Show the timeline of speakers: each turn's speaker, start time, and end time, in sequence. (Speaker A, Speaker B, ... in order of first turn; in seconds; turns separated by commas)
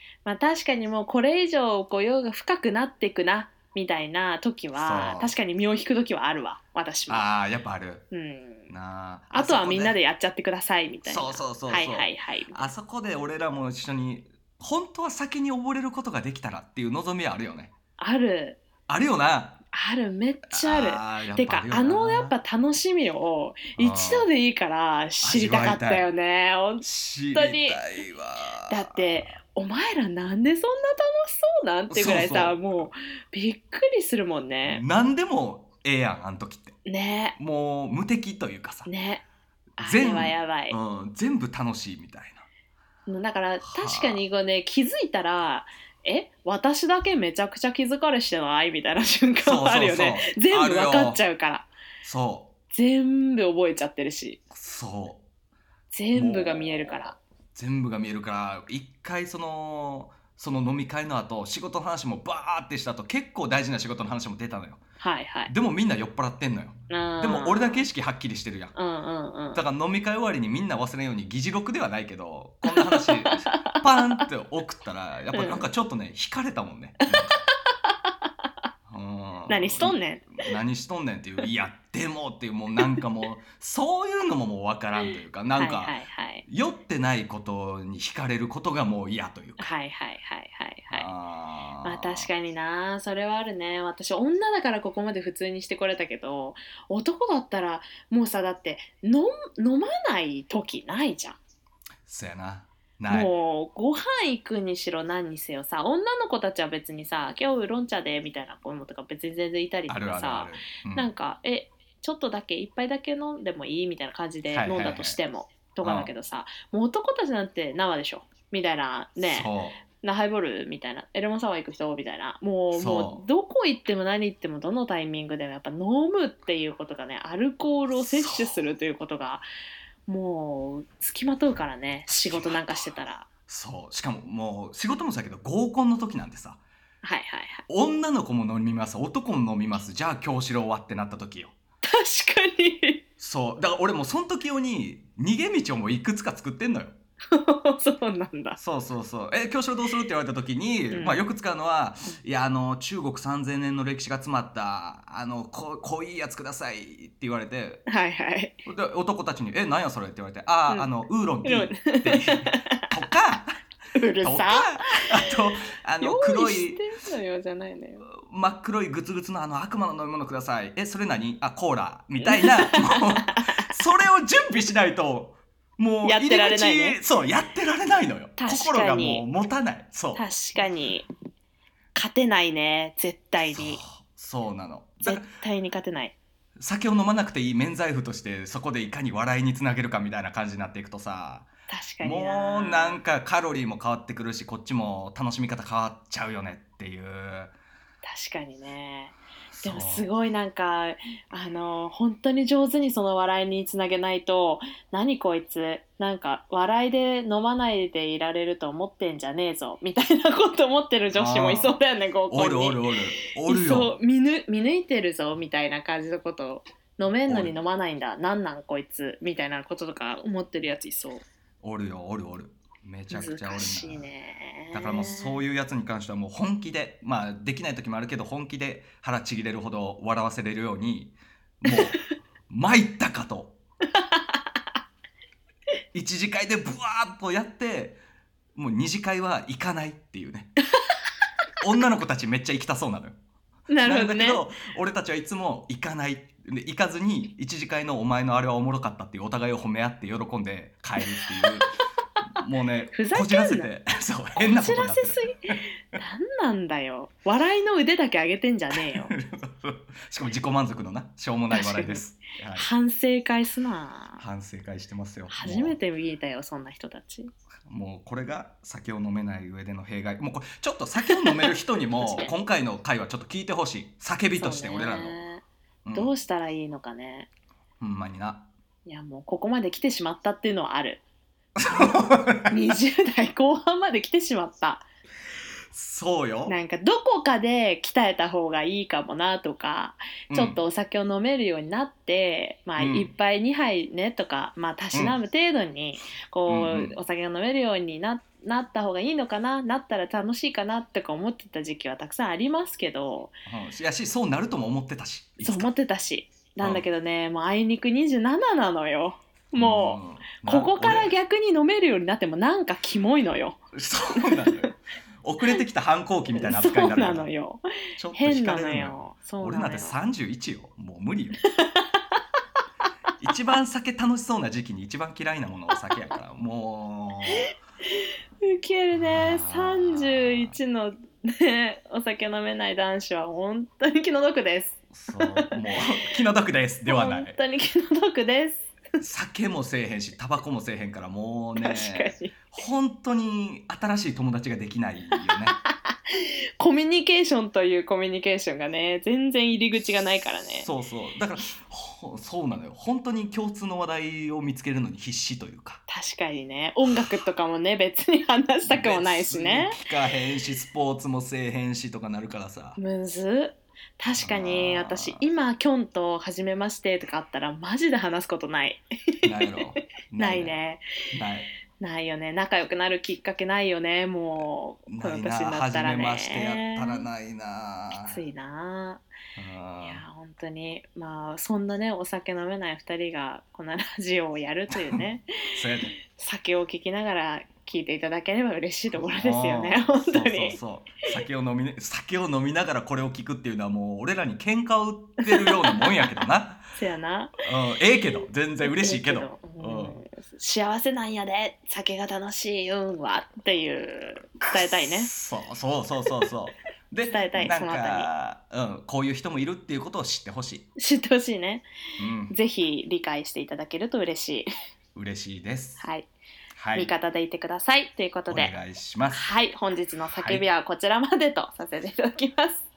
Speaker A: 0.2-7.3, Speaker B: 4.7-5.3, Speaker B: 7.1-8.1, Speaker A: 8.1-8.7, Speaker B: 8.7-10.0, Speaker A: 9.3-12.7, Speaker B: 11.1-17.7, Speaker A: 18.0-18.6, Speaker B: 18.9-19.6, Speaker A: 19.7-27.8, Speaker B: 20.5-22.4, Speaker B: 23.8-24.3, Speaker B: 25.2-26.1, Speaker B: 26.8-29.3, Speaker A: 28.7-34.8, Speaker B: 31.9-32.7, Speaker B: 34.6-36.8, Speaker A: 36.9-37.4, Speaker B: 37.4-38.9, Speaker A: 38.9-39.2, Speaker A: 39.8-40.8, Speaker B: 39.8-42.5, Speaker A: 43.1-51.7, Speaker B: 43.6-44.2, Speaker B: 49.4-51.2, Speaker B: 52.0-52.5, Speaker A: 52.7-54.4, Speaker B: 54.5-55.2, Speaker A: 55.9-57.2, Speaker B: 56.1-64.8, Speaker A: 65.0-65.5, Speaker B: 65.5-68.8, Speaker A: 66.9-67.8, Speaker A: 68.8-69.6, Speaker B: 69.5-77.3, Speaker A: 72.7-74.2, Speaker A: 75.3-75.7, Speaker B: 78.9-89.7, Speaker A: 79.5-80.5, Speaker A: 85.0-86.5, Speaker A: 89.6-91.1, Speaker B: 90.9-92.3, Speaker A: 91.8-101.4, Speaker B: 102.0-103.3, Speaker A: 103.1-129.5, Speaker B: 109.9-111.1, Speaker B: 114.5-115.2, Speaker B: 115.8-116.1, Speaker B: 119.2-119.8, Speaker B: 122.7-123.2, Speaker B: 128.0-128.6, Speaker A: 130.1-133.3, Speaker B: 132.2-132.9, Speaker B: 133.5-136.6, Speaker A: 137.0-137.6, Speaker B: 137.7-141.6, Speaker A: 141.8-143.0, Speaker B: 143.2-146.9, Speaker A: 147.3-148.6, Speaker B: 148.6-157.8, Speaker A: 150.9-151.2, Speaker A: 157.9-158.6, Speaker B: 158.7-163.6, Speaker A: 161.4-162.8, Speaker A: 163.9-165.3, Speaker B: 164.2-166.8, Speaker A: 166.0-168.1, Speaker B: 168.1-180.3, Speaker A: 172.2-173.7, Speaker A: 176.0-177.0, Speaker A: 178.4-179.2, Speaker A: 180.2-181.1, Speaker A: 181.9-183.8, Speaker B: 183.5-185.3, Speaker A: 185.0-186.2, Speaker B: 186.6-191.5, Speaker A: 191.7-193.0, Speaker B: 192.0-197.5, Speaker A: 198.0-212.9, Speaker B: 199.5-200.1, Speaker B: 211.1-211.8, Speaker B: 212.3-213.9, Speaker A: 213.4-221.2, Speaker B: 217.3-217.5, Speaker B: 221.6-224.0, Speaker A: 223.1-225.4, Speaker B: 224.7-232.0, Speaker A: 231.7-232.0, Speaker B: 232.5-233.6, Speaker A: 234.0-234.2, Speaker B: 235.9-238.0, Speaker B: 238.6-240.5, Speaker B: 241.6-243.2, Speaker A: 243.7-244.4, Speaker B: 243.8-251.7, Speaker B: 252.4-255.6, Speaker A: 252.9-253.7, Speaker A: 254.4-259.1, Speaker B: 258.7-262.7, Speaker A: 261.5-262.0, Speaker A: 262.6-264.2, Speaker B: 264.2-265.8, Speaker A: 265.3-267.3, Speaker B: 267.7-275.2, Speaker A: 271.0-272.3, Speaker A: 274.4-277.3, Speaker B: 275.9-276.1, Speaker B: 277.8-278.5, Speaker A: 278.9-281.0, Speaker B: 281.6-282.6, Speaker A: 281.6-284.9, Speaker B: 285.7-286.6, Speaker A: 286.5-303.4, Speaker B: 290.3-290.6, Speaker B: 292.8-293.1, Speaker B: 296.5-296.9, Speaker B: 303.5-305.7, Speaker A: 305.4-313.6, Speaker B: 309.6-311.1, Speaker B: 313.7-317.3, Speaker A: 314.1-314.7, Speaker A: 316.4-320.0, Speaker B: 318.0-321.4, Speaker A: 321.6-322.0, Speaker B: 323.2-327.5, Speaker A: 328.4-335.6, Speaker B: 329.0-330.5, Speaker B: 334.9-337.4, Speaker A: 336.9-338.7, Speaker B: 339.0-345.6, Speaker A: 341.6-342.4, Speaker A: 345.1-350.7, Speaker B: 350.6-355.8, Speaker A: 355.9-359.8, Speaker B: 358.7-362.8, Speaker A: 362.8-368.8, Speaker B: 364.2-365.2, Speaker B: 369.2-370.6, Speaker A: 370.2-370.8, Speaker B: 371.1-371.5, Speaker A: 371.8-377.1, Speaker B: 374.4-378.2, Speaker A: 377.9-379.0, Speaker B: 379.4-380.0, Speaker A: 379.8-385.3, Speaker B: 384.7-385.0, Speaker B: 385.6-385.9, Speaker A: 386.1-390.6, Speaker B: 389.0-396.7, Speaker A: 395.2-396.1, Speaker A: 396.8-397.5, Speaker B: 397.4-400.0, Speaker A: 398.1-405.1, Speaker B: 404.4-410.7, Speaker A: 407.1-408.1, Speaker A: 410.8-411.7, Speaker B: 412.0-412.3, Speaker A: 412.3-414.5, Speaker B: 414.9-415.8, Speaker A: 415.8-416.1, Speaker B: 416.6-416.9, Speaker A: 416.8-418.5, Speaker B: 418.3-419.3, Speaker A: 419.1-422.6, Speaker B: 420.1-420.4